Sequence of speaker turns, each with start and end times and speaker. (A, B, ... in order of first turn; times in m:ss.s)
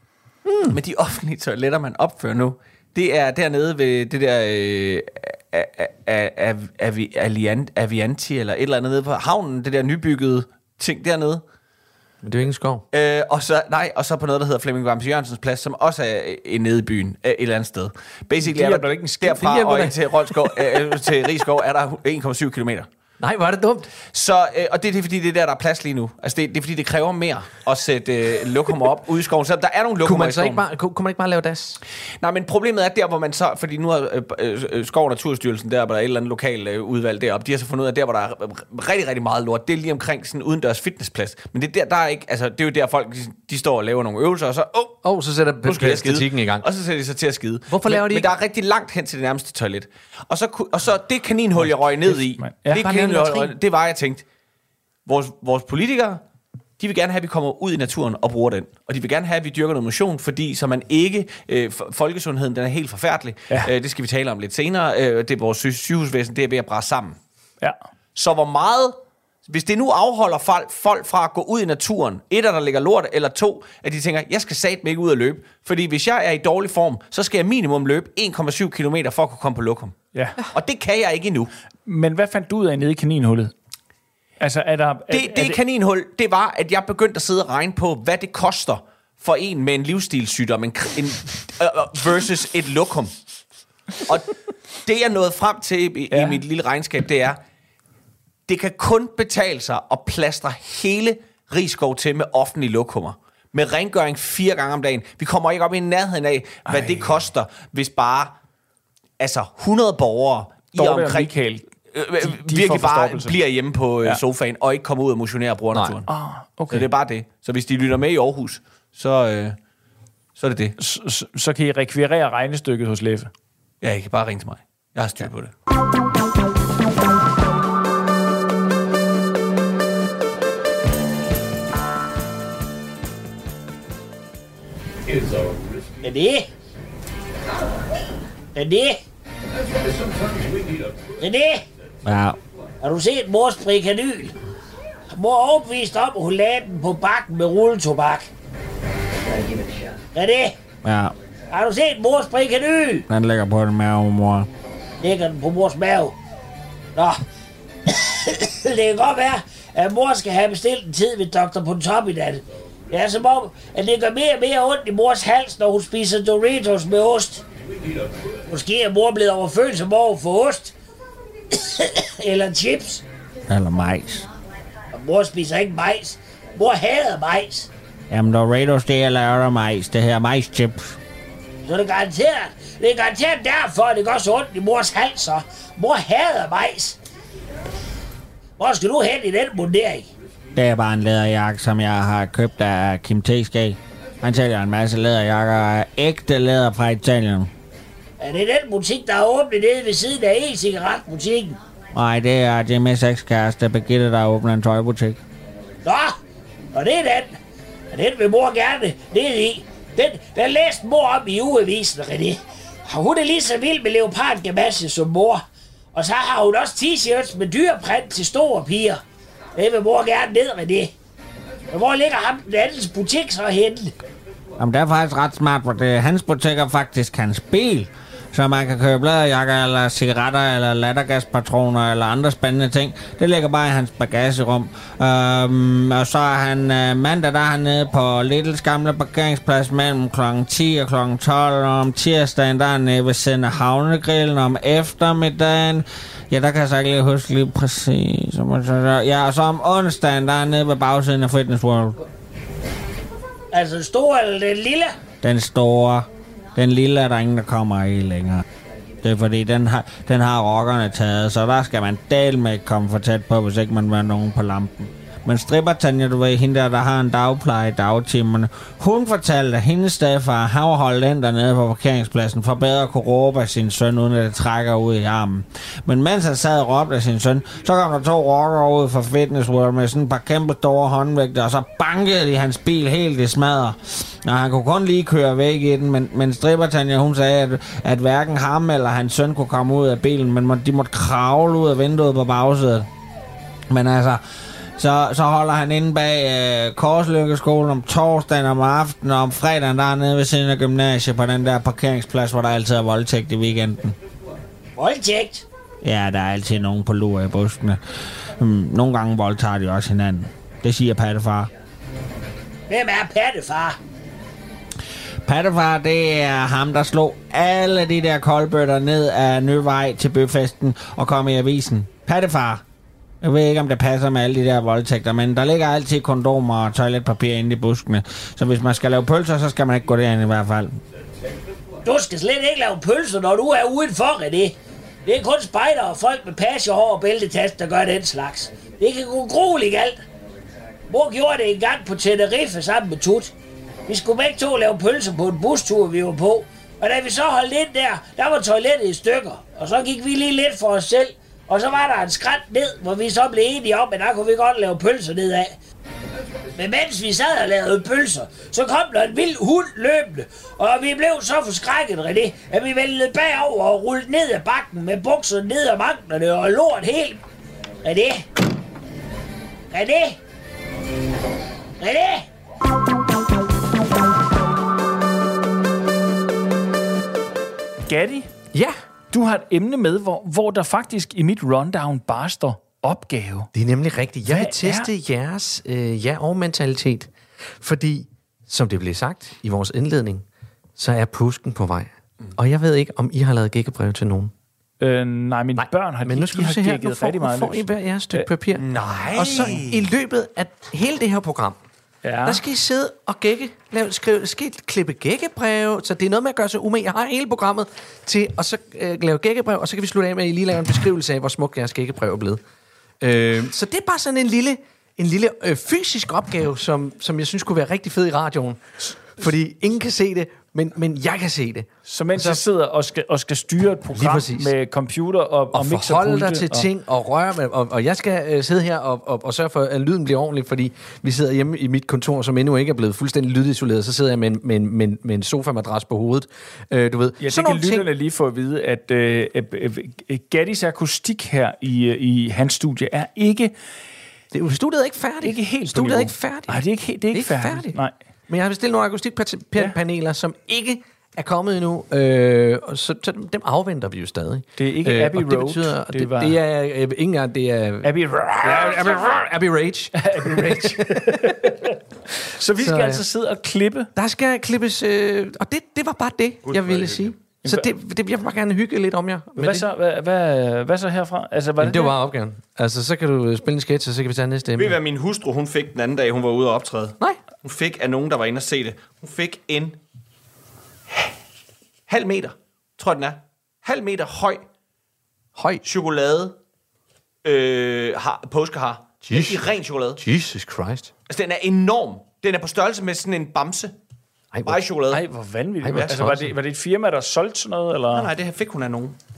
0:00.4-0:00.8 A
0:00.7-0:11.4 B
0:12.2-0:12.8 A
0:12.9-0:22.9 B
0:18.4-0:19.5 C
0:19.3-0:20.7 A
0:23.2-0:23.9 A
0:24.1-0:30.6 B
0:30.0-0:31.8 A
0:32.2-0:45.0 B
0:45.0-0:46.7 A
0:45.6-0:54.2 B
0:47.7-0:48.3 A
0:51.6-0:53.0 C
0:52.7-0:53.5 A
0:55.0-0:56.2 B
0:56.8-1:07.2 B
1:08.1-1:20.0 B
1:20.1-1:20.4 C
1:20.5-1:21.5 B
1:21.8-1:23.5 C
1:24.4-1:25.6 C
1:25.1-1:33.1 B
1:34.0-1:37.4 B
1:36.1-1:36.4 C
1:38.5-1:48.3 B
1:46.7-1:47.1 C
1:49.2-1:51.3 B
1:50.8-1:51.6 C
1:51.9-1:56.1 B
1:52.2-1:53.4 C
1:55.7-1:56.0 A
1:56.1-1:56.9 C
1:56.7-1:59.6 B
2:00.4-2:00.8 B
2:00.8-2:03.3 C
2:03.8-2:05.5 B
2:16.0-2:16.5 D
2:18.5-2:19.0 D
2:21.2-2:21.6 D
2:22.0-2:22.4 E
2:22.8-2:24.3 D
2:25.1-2:28.3 D
2:30.1-2:30.6 D
2:30.8-2:31.1 E
2:31.5-2:33.1 D
2:33.1-2:34.5 E
2:35.0-2:36.2 D
2:37.9-2:47.4 D
2:48.5-2:50.7 D
2:51.5-2:53.0 D
2:53.5-2:54.2 E
2:54.9-2:57.7 D
2:58.1-3:01.0 E
3:01.6-3:07.0 D
3:08.6-3:10.1 D
3:10.5-3:17.5 E
3:18.2-3:21.6 D
3:21.9-3:25.2 E
3:25.8-3:26.2 D
3:26.7-3:27.4 D
3:27.9-3:39.0 D
3:39.6-3:40.9 D
3:41.7-3:43.9 D
3:44.6-4:12.0 E
4:13.5-4:15.0 D
4:15.2-4:18.4 E
4:19.0-4:52.9 E
4:53.7-4:54.2 E
4:54.8-5:03.9 E
5:04.8-5:05.4 D
5:05.8-5:07.8 E
5:08.4-5:11.5 E
5:12.7-5:13.8 D
5:15.2-5:22.6 E
5:23.2-5:30.8 E
5:31.8-5:40.0 D
5:40.9-5:43.3 D
5:43.9-5:55.6 D
5:56.5-6:07.2 D
6:07.8-6:08.2 D
6:09.7-6:10.2 D
6:11.8-6:12.3 D
6:17.9-6:18.3 C
6:19.1-6:23.5 C
6:23.5-6:30.2 A
6:24.3-6:24.9 C
6:30.8-6:34.3 A
6:34.8-6:38.3 C
6:35.6-6:41.6 A
6:38.5-6:39.9 B
6:42.0-6:42.4 C
6:42.2-6:52.4 A
6:53.0-7:02.4 A
7:01.8-7:06.7 C
7:03.9-7:04.5 A
7:05.5-7:17.9 A
7:17.2-7:23.5 C
7:24.3-7:41.6 A
7:25.2-7:27.9 C
7:34.6-7:36.4 C
7:37.8-7:39.2 C
7:39.9-7:43.9 C
7:42.6-7:43.0 A
7:43.9-7:49.7 A
7:46.4-7:47.1 B
7:47.4-7:47.7 C
7:49.4-7:52.0 C
7:51.6-7:54.8 A
7:54.6-7:59.8 B
8:01.9-8:04.4 B
8:05.4-8:05.6 A
8:05.6-8:06.4 B
8:07.2-8:10.0 B
8:09.0-8:10.9 A
8:11.1-8:13.7 B
8:14.3-8:14.6 A
8:14.4-8:15.0 B
8:14.9-8:18.1 C
8:15.6-8:16.3 A
8:15.7-8:16.0 B
8:17.9-8:19.0 B